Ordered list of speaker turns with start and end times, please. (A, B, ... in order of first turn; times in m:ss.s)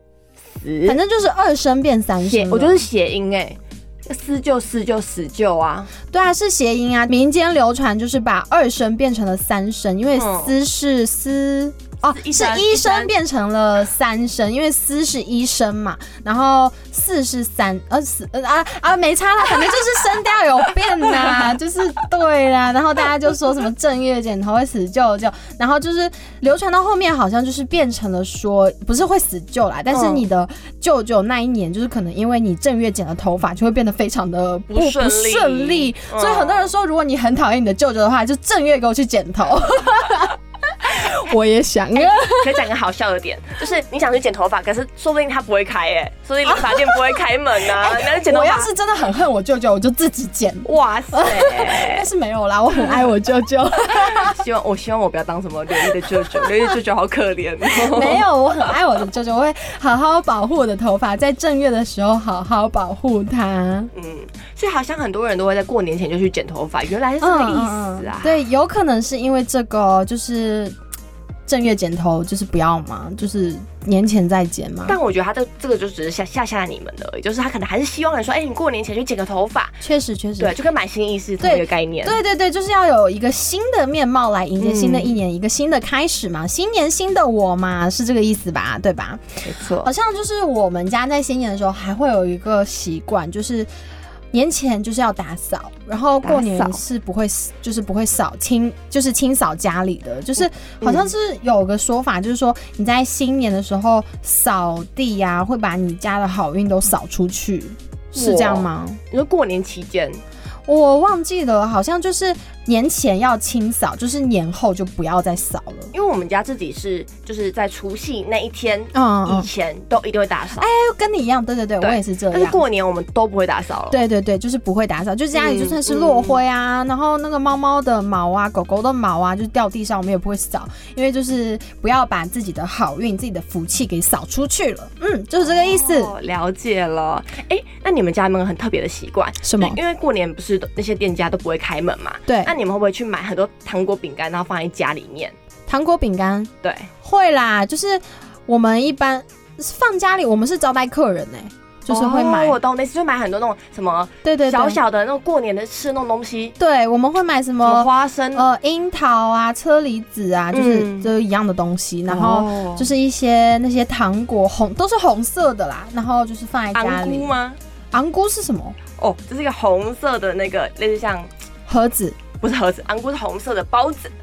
0:00.6-0:01.0 A
0:00.9-0:02.8 B
0:02.2-0:05.9 A
0:06.1-0:40.4 B
0:10.1-0:10.6 A
0:12.0-0:13.1 A
0:29.9-0:30.3 A
0:34.7-0:36.7 A
0:40.9-0:42.5 B
0:41.9-0:48.7 A
0:46.4-0:46.9 B
0:47.8-0:54.3 B
0:50.6-0:52.1 A
0:52.8-0:53.1 A
0:53.9-0:58.3 A
0:57.8-1:03.9 B
1:03.9-1:08.5 A
1:07.2-1:10.8 B
1:11.5-1:15.0 B
1:14.8-1:19.8 A
1:19.8-1:20.5 B
1:20.4-1:22.3 A
1:21.4-1:29.2 B
1:24.6-1:25.2 A
1:29.4-1:29.9 A
1:29.8-1:33.7 B
1:34.3-1:49.0 B
1:36.2-1:36.8 A
1:40.4-1:41.1 A
1:48.2-1:50.2 A
1:50.7-1:55.9 B
1:55.9-2:00.7 A
1:58.9-1:59.4 B
2:00.6-2:02.6 B
2:01.8-2:04.0 A
2:03.9-2:16.1 B
2:05.3-2:06.4 A
2:15.4-2:25.4 A
2:19.4-2:19.8 B
2:25.7-2:26.5 B
2:26.6-2:26.9 A
2:27.0-2:32.6 B
2:31.9-2:36.6 A
2:34.2-2:34.8 B
2:36.6-2:47.3 B
2:37.6-2:38.5 A
2:40.5-2:41.1 A
2:42.1-2:42.9 A
2:46.7-2:47.6 A
2:47.9-2:48.8 B
2:49.0-2:51.3 A
2:51.7-2:52.2 B
2:52.3-2:54.1 A